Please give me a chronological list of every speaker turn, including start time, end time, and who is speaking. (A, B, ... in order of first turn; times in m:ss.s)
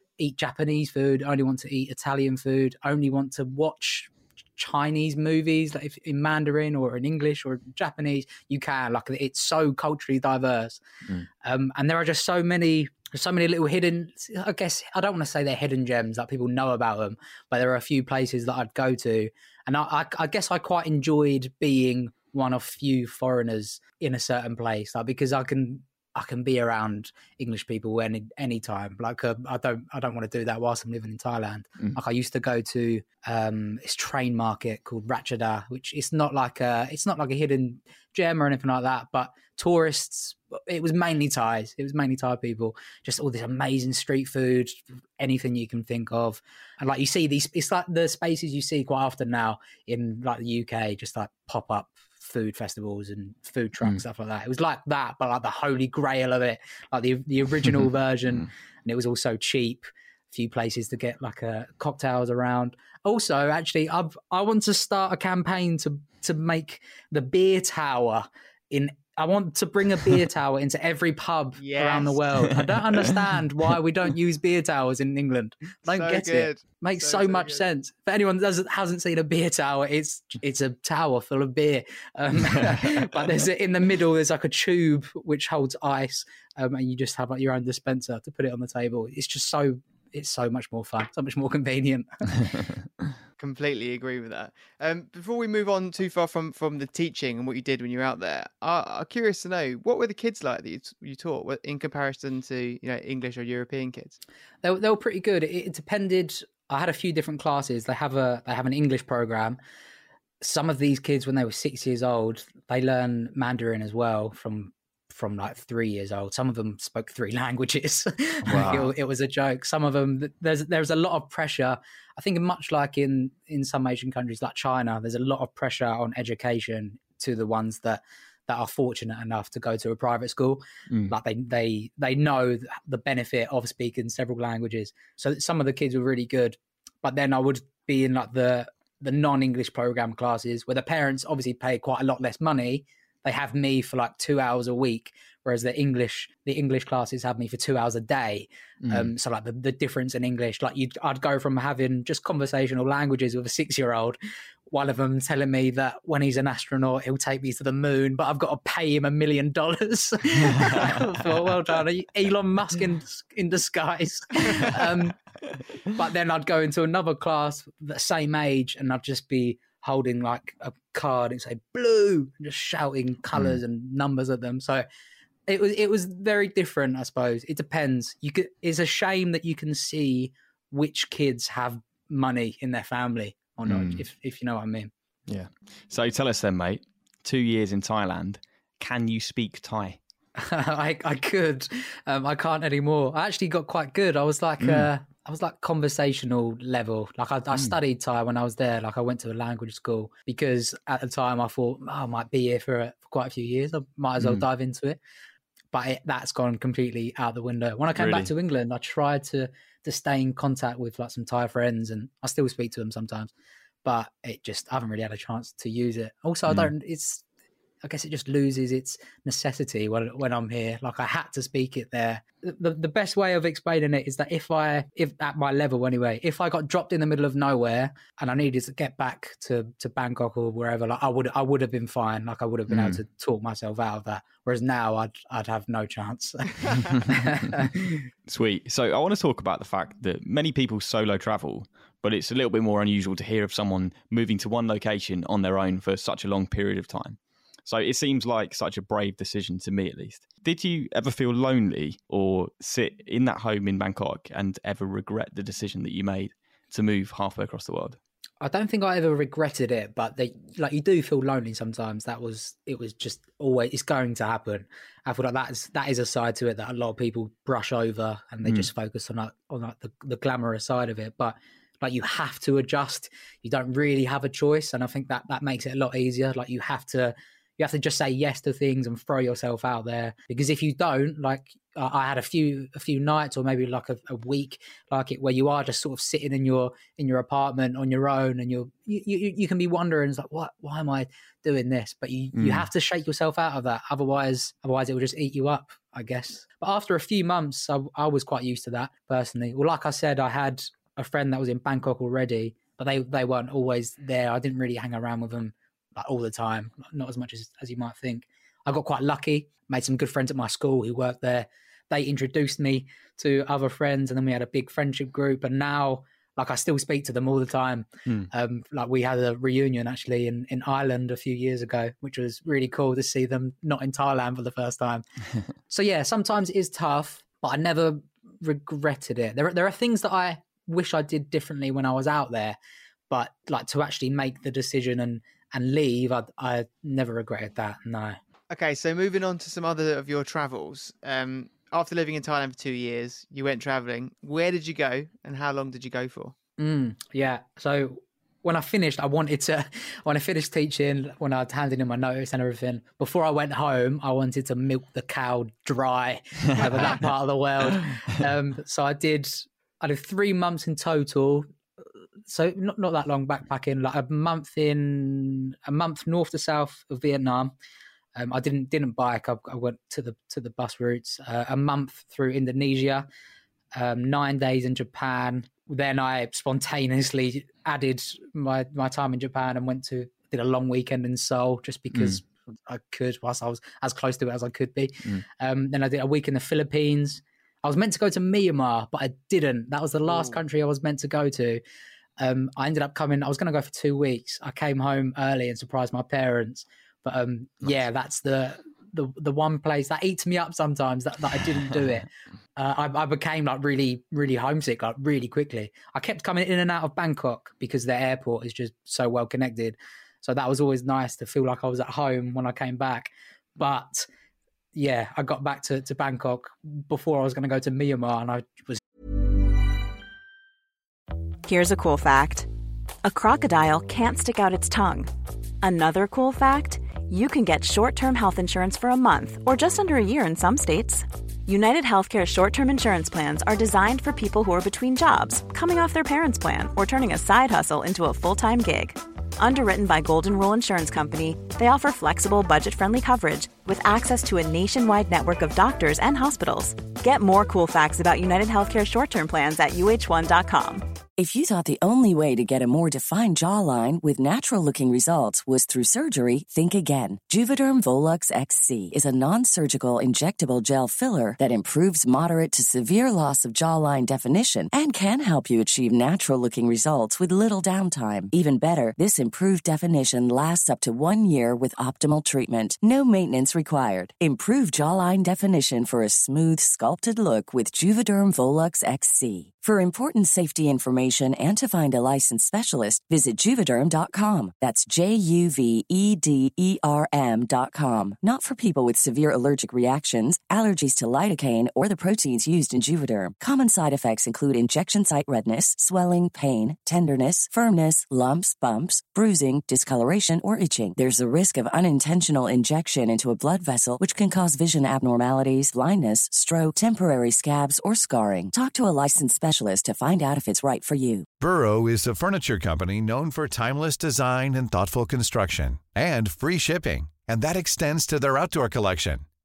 0:00.2-0:10.8 A
0:11.4-1:32.5 A
1:11.6-1:12.2 B
1:15.9-1:17.6 B
1:33.4-1:44.2 B
1:44.6-1:49.6 A
1:50.4-2:34.2 A
1:58.5-1:58.9 C
2:28.8-2:29.1 C
2:34.7-2:45.2 A
2:45.9-2:54.8 A
2:55.5-3:04.9 A
3:03.7-3:04.0 C
3:05.3-3:10.0 C
3:10.4-3:25.0 A
3:14.6-3:14.9 C
3:24.2-3:24.4 C
3:25.7-3:33.3 A
3:28.0-3:28.3 C
3:33.8-3:37.2 A
3:37.8-3:57.9 A
3:52.7-3:53.0 C
3:58.3-4:18.0 C
4:18.4-5:25.0 A
4:52.4-4:52.7 C
5:25.7-5:32.6 A
5:33.1-5:38.2 A
5:38.5-5:46.4 B
5:46.6-6:01.5 A
6:02.3-6:07.5 A
6:08.2-6:13.1 A
6:13.8-6:31.6 A
6:21.9-6:22.2 C
6:32.2-6:54.1 A
6:54.8-6:58.8 A
7:01.4-7:02.5 D
7:03.0-7:05.1 D
7:05.6-7:30.8 D
7:31.2-8:31.3 E
8:31.4-8:39.2 F